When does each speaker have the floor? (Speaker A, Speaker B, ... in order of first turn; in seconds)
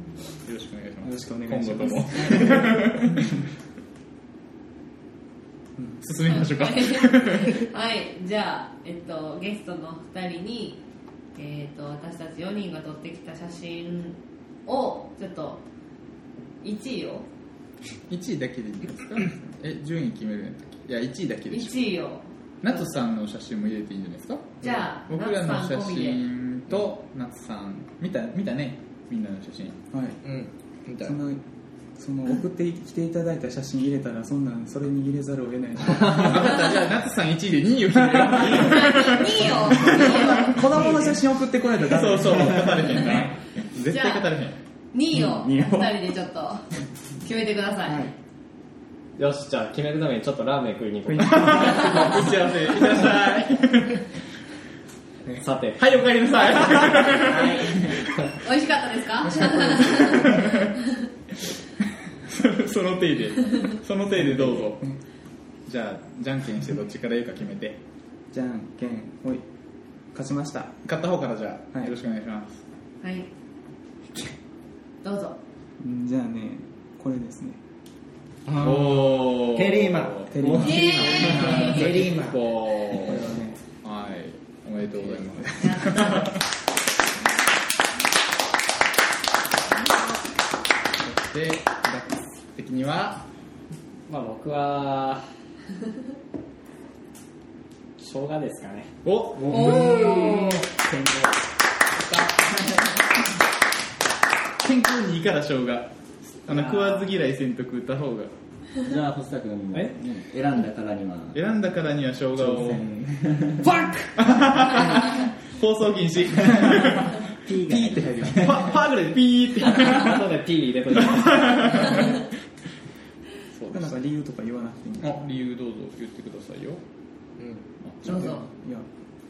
Speaker A: 0.4-3.4, 6.0-7.7, 18.1-21.8, 22.6-29.8, 36.0-40.9, 41.8-44.5, 51.2-54.0, 55.8-58.4, 60.1-60.7, 62.2-64.8, 65.7-67.8, 70.8-72.6, 78.5-86.4, 91.0-93.2, 99.0-100.4, 104.6-108.3, 111.3-112.9, 114.2-120.3, 121.0-122.2, 123.5-124.0, 125.0-126.8, 127.8-128.4
Speaker B: 1.0-3.4, 5.8-6.0, 29.9-30.2, 31.0-31.4, 31.9-36.7, 40.2-43.3, 45.1-45.9, 47.9-48.1, 51.1-52.1, 59.2-60.3, 64.2-65.0, 68.3-69.4, 70.1-70.8, 75.8-77.6, 80.3-81.1, 83.0-83.5, 85.4-85.9, 117.7-118.7, 123.7-125.2, 128.1-128.9
Speaker C: 6.3-10.8, 11.3-15.6, 16.6-17.2, 21.5-22.9, 24.6-26.2, 38.5-40.9, 43.9-44.3, 44.9-46.7, 47.2-48.0, 58.3-60.4, 73.0-73.3, 75.0-75.4, 80.6-81.8, 85.6-86.3, 99.6-100.6, 128.0-128.4
Speaker D: 30.2-31.2, 78.5-82.4, 127.4-127.6
Speaker E: 49.2-52.3, 55.4-55.8, 94.1-95.2, 98.0-98.9, 106.5-107.0, 119.7-122.1
Speaker F: 57.1-58.1, 99.3-101.3, 108.8-111.4, 112.4-113.9, 116.4-118.8